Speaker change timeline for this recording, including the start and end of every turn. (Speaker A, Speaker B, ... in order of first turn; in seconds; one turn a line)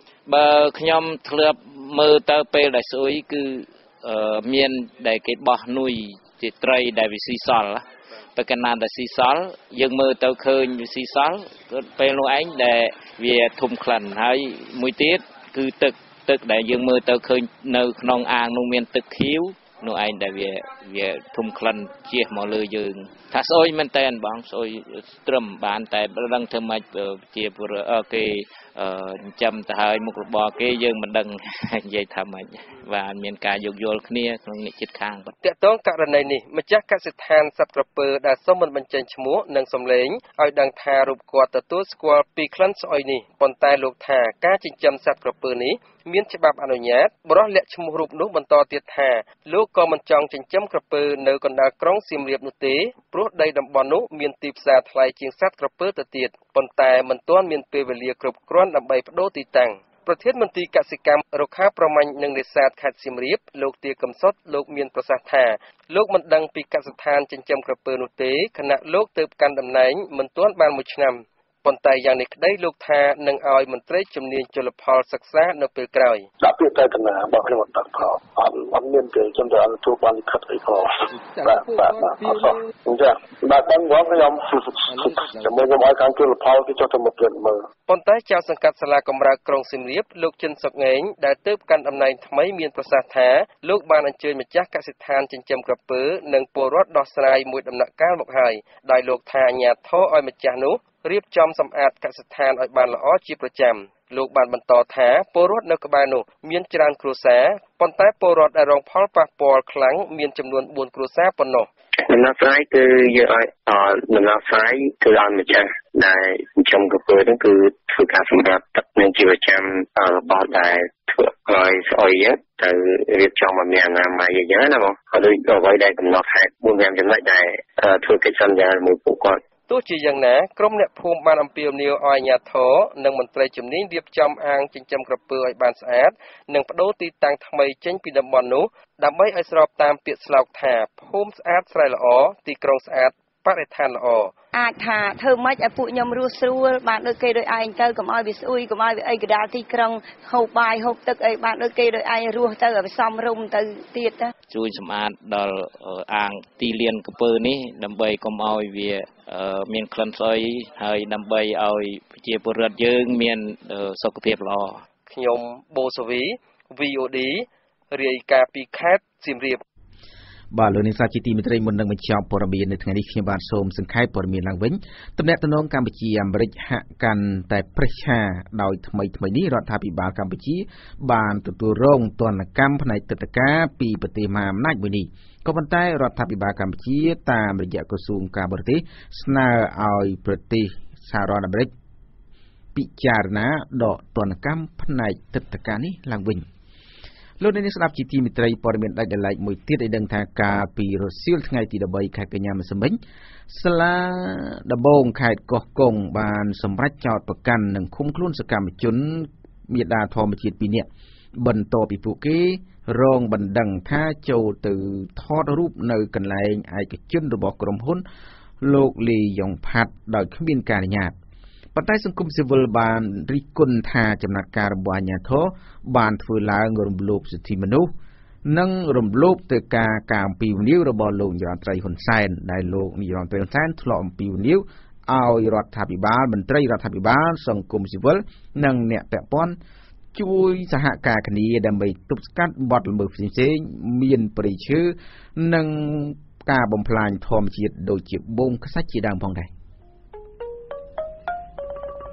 Speaker A: 0.3-7.8
Speaker A: 8.3-35.3
Speaker B: 35.4-76.2
Speaker C: 76.4-87.6
Speaker B: 87.9-111.7
Speaker C: 112.0-129.4
Speaker B: 129.7-144.3
Speaker D: 144.5-154.3
Speaker A: 154.5-164.8
Speaker B: 165.1-169.6
Speaker E: 170.5-191.7
Speaker E: 192.7-196.4
Speaker E: 197.4-218.0
Speaker E: 218.6-221.2
Speaker E: 221.7-227.9
Speaker E: 228.4-239.6
Speaker E: 240.1-249.5